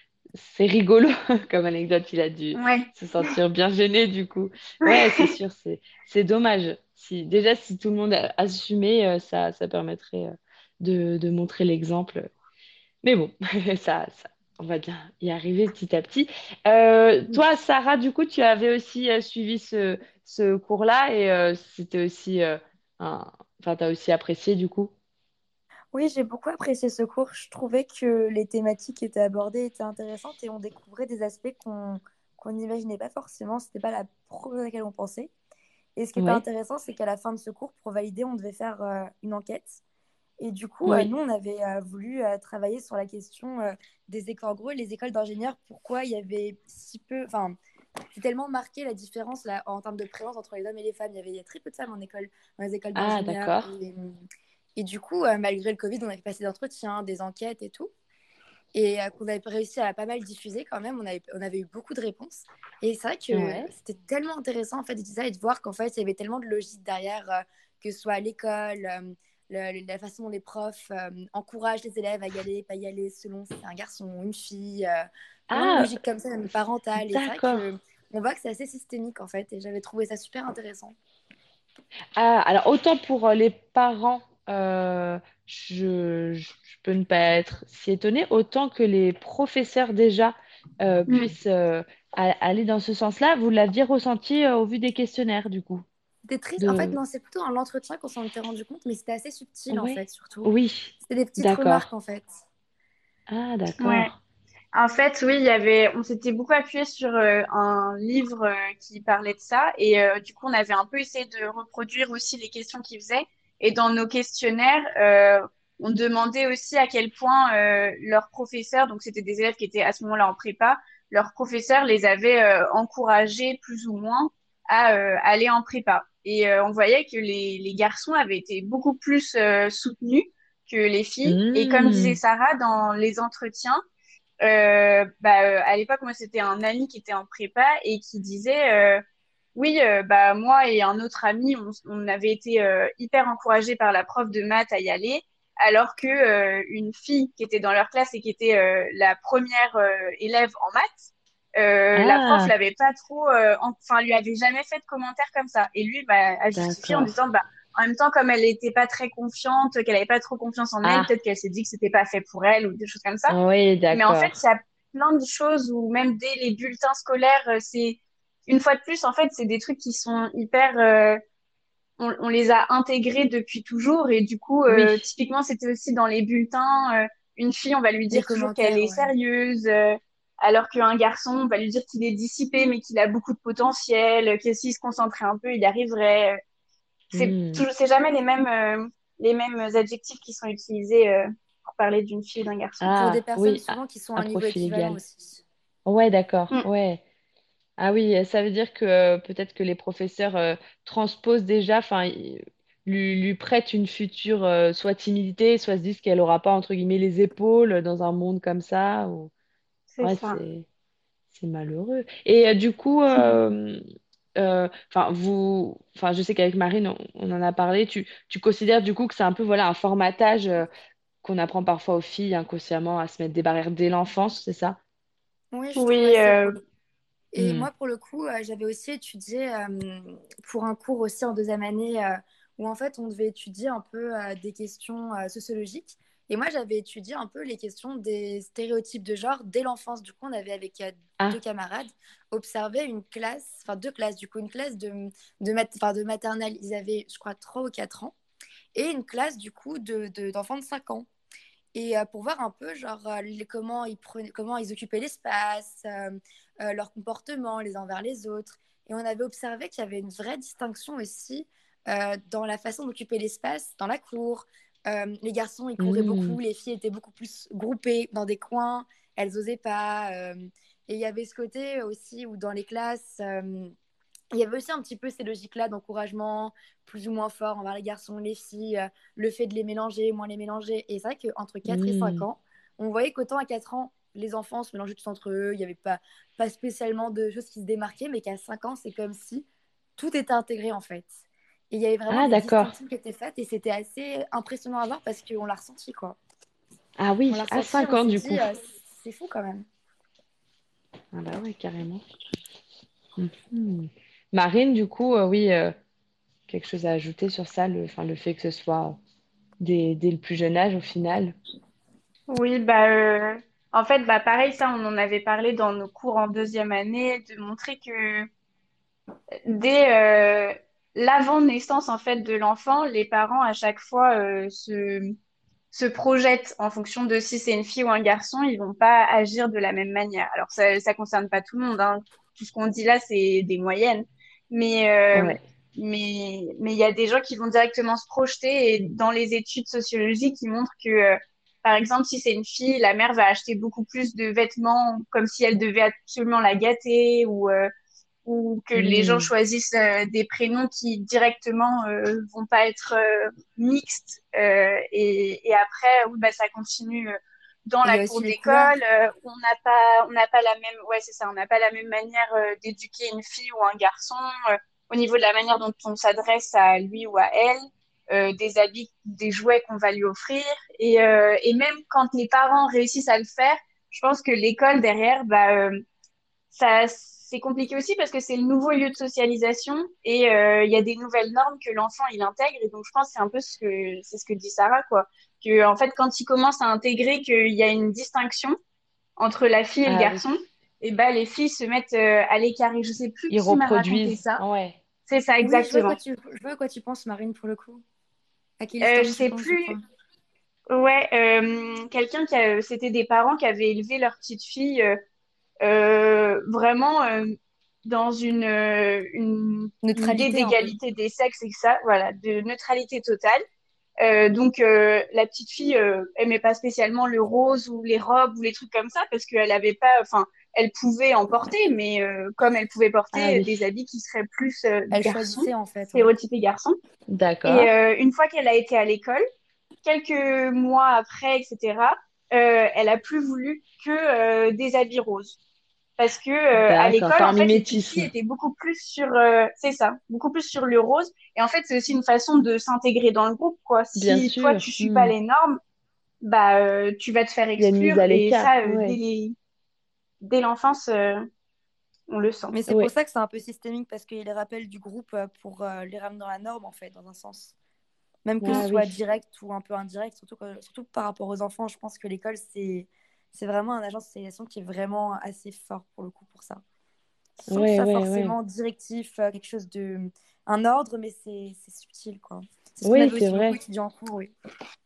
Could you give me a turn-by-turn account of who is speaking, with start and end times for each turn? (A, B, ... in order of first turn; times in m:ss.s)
0:00.4-0:12.3 A
0:02.5-0:03.3 B
0:04.8-0:05.3 B
0:13.0-0:24.9 A
0:25.9-0:35.3 C
0:36.0-0:39.8 C
0:36.2-0:36.4 A
0:40.4-0:47.6 C
0:48.1-0:54.2 C
0:53.0-0:53.7 A
0:54.8-0:57.9 C
0:58.7-1:21.0 C
1:03.3-1:03.7 A
1:15.5-1:15.9 A
1:17.0-1:17.7 A
1:22.2-1:35.8 A
1:36.2-1:42.4 C
1:36.6-1:37.0 A
1:39.7-1:41.9 A
1:43.3-1:44.2 A
1:43.8-1:44.1 B
1:44.7-2:13.8 B
2:11.2-2:12.2 A
2:14.4-2:19.0 B
2:19.5-2:43.3 B
2:32.0-2:32.5 A
2:36.5-2:37.1 A
2:40.8-2:41.1 A
2:43.3-2:44.4 A
2:43.9-2:51.2 B
2:52.0-3:06.4 B
2:54.7-2:55.0 A
2:58.1-2:59.1 C
3:07.1-3:07.6 A
3:07.1-3:12.9 B
3:12.8-3:15.0 A
3:12.9-3:15.4 C
3:15.8-3:17.0 A
3:17.8-3:29.3 A
3:29.9-3:30.4 B
3:30.0-3:30.6 A
3:31.3-3:33.8 A
3:34.4-3:40.7 A
3:41.2-3:44.8 A
3:45.5-3:46.6 C
3:45.8-3:46.6 B
3:47.3-4:08.1 C
3:47.4-3:47.7 A
4:08.7-4:11.1 C
4:11.7-4:33.7 C
4:25.8-4:26.4 A
4:34.3-4:56.2 C
4:41.6-4:42.2 A
4:52.1-4:52.7 A
4:57.0-4:58.4 A
4:57.3-4:59.6 C
5:01.1-5:02.0 A
5:03.2-5:05.7 A
5:06.5-5:09.0 A
5:09.6-5:11.4 A
5:12.3-5:18.3 B
5:19.5-5:25.1 B
5:25.7-5:47.7 B
5:48.2-6:04.3 B
5:48.8-5:49.3 A
5:57.8-5:58.7 C
6:04.9-6:15.8 B
6:16.5-6:28.6 B
6:29.2-6:34.4 B
6:29.8-6:30.3 A
6:33.3-6:34.8 A
6:35.1-6:36.0 B
6:35.4-6:37.8 C
6:38.6-6:39.8 C
6:38.8-6:39.8 B
6:40.7-6:45.0 B
6:45.6-6:53.4 B
6:49.8-6:50.7 C
6:54.0-7:06.8 B
7:03.1-7:03.6 A
7:04.9-7:06.1 C
7:07.1-7:07.7 A
7:07.4-7:09.2 B
7:09.8-7:15.4 B
7:16.0-7:25.6 B
7:16.6-7:18.1 A
7:24.0-7:25.1 A
7:26.2-7:29.4 B
7:27.6-7:29.0 A
7:30.2-7:31.2 B
7:32.1-7:32.5 B
7:32.5-7:37.5 C
7:38.2-7:46.6 C
7:38.4-7:39.0 A
7:47.4-7:54.3 C
7:47.5-7:48.3 A
7:52.8-7:53.6 A